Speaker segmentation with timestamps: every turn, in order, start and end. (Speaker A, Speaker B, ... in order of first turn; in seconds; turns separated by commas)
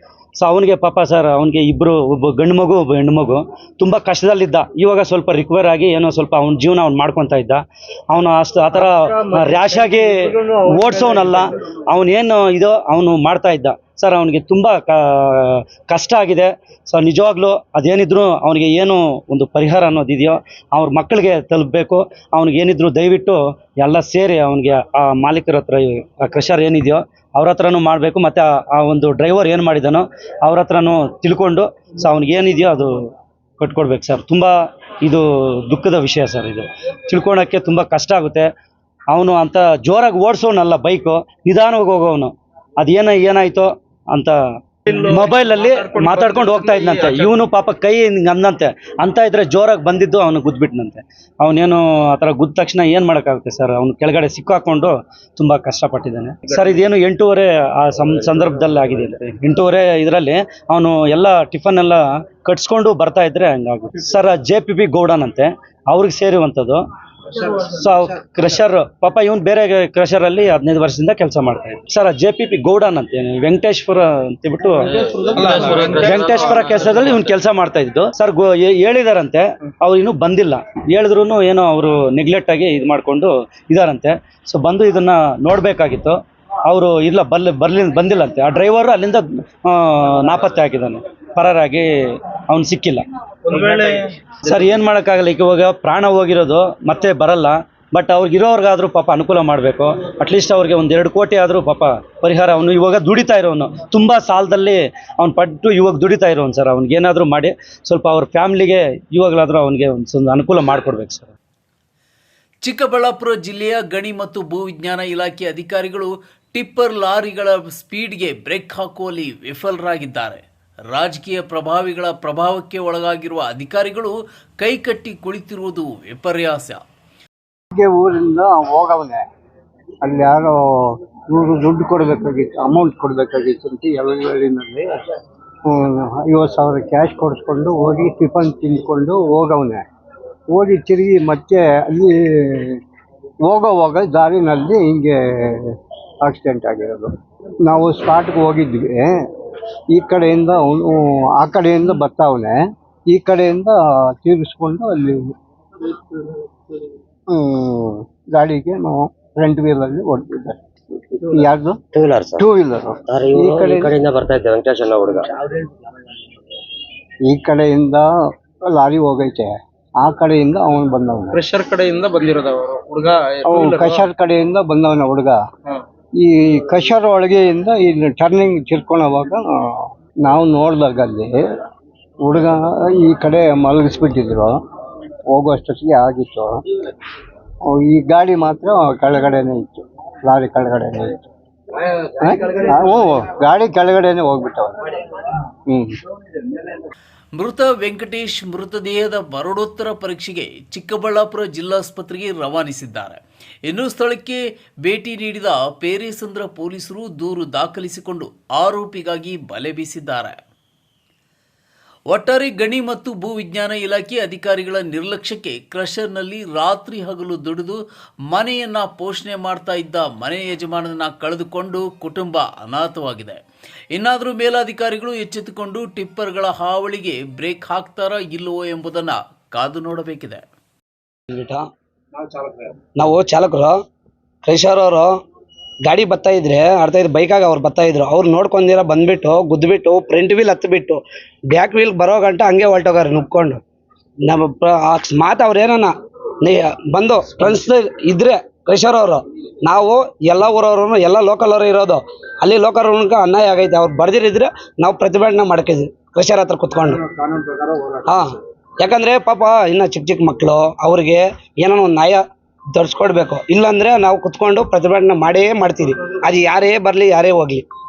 Speaker A: 0.4-32.9, Speaker B: 8.9-11.5, Speaker A: 33.6-38.5, Speaker A: 39.1-66.8, Speaker B: 44.9-47.3, Speaker A: 67.4-75.0, Speaker B: 75.0-77.0, Speaker C: 75.6-75.9, Speaker A: 75.8-91.9, Speaker A: 92.5-111.3, Speaker B: 93.5-93.9, Speaker D: 112.6-126.8, Speaker E: 127.7-129.2, Speaker E: 130.0-134.9, Speaker E: 135.7-139.8, Speaker E: 140.5-142.8, Speaker E: 143.5-147.1, Speaker E: 147.7-149.1, Speaker E: 149.9-155.3, Speaker E: 157.3-161.8, Speaker C: 161.9-162.5, Speaker E: 162.4-163.9, Speaker C: 163.1-165.3, Speaker E: 167.3-168.1, Speaker E: 168.7-171.4, Speaker B: 171.3-174.1, Speaker E: 173.4-175.4, Speaker E: 176.2-181.4, Speaker E: 182.2-184.6, Speaker E: 185.3-186.6, Speaker E: 187.7-191.2, Speaker E: 192.2-194.9, Speaker E: 195.7-196.0, Speaker D: 197.4-210.4, Speaker D: 212.1-217.8, Speaker D: 218.3-223.4, Speaker D: 223.9-230.4, Speaker F: 231.3-231.7, Speaker F: 232.4-233.8, Speaker F: 234.4-235.1, Speaker F: 235.9-243.6, Speaker F: 244.2-257.0, Speaker F: 258.1-262.2, Speaker F: 262.7-267.7